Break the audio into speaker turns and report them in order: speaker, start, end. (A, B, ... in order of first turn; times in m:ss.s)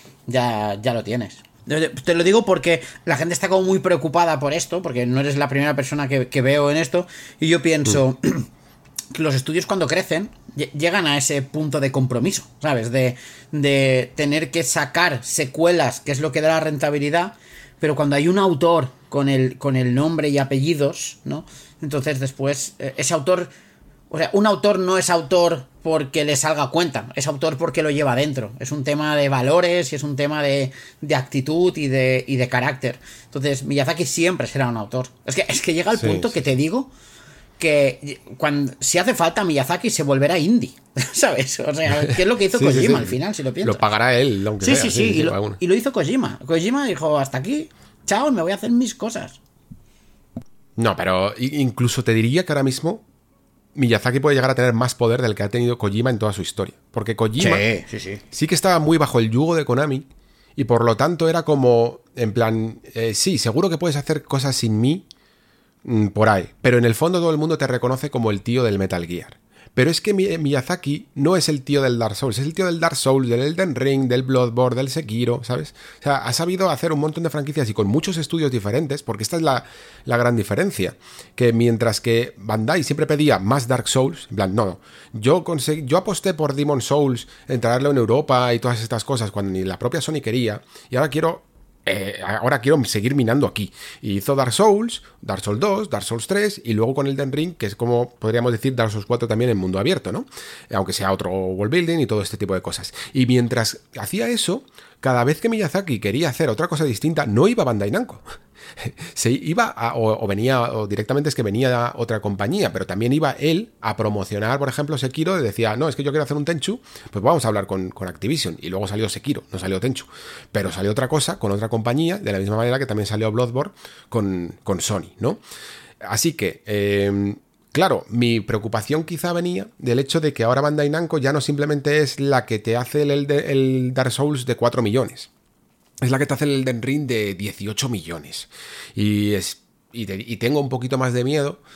0:00.3-0:08.5 A
0:09.1-0:23.5 A
0:24.1-0:36.9 A
0:36.0-0:36.3 B
0:37.6-0:43.8 A
0:42.5-0:45.6 B
0:44.6-0:49.4 A
0:50.8-0:53.0 B
0:53.7-0:57.7 B
0:57.4-0:58.2 A
0:58.3-1:05.0 B
1:05.8-1:48.2 B
1:48.8-2:05.4 B
2:06.0-2:15.3 B
2:16.0-2:21.6 B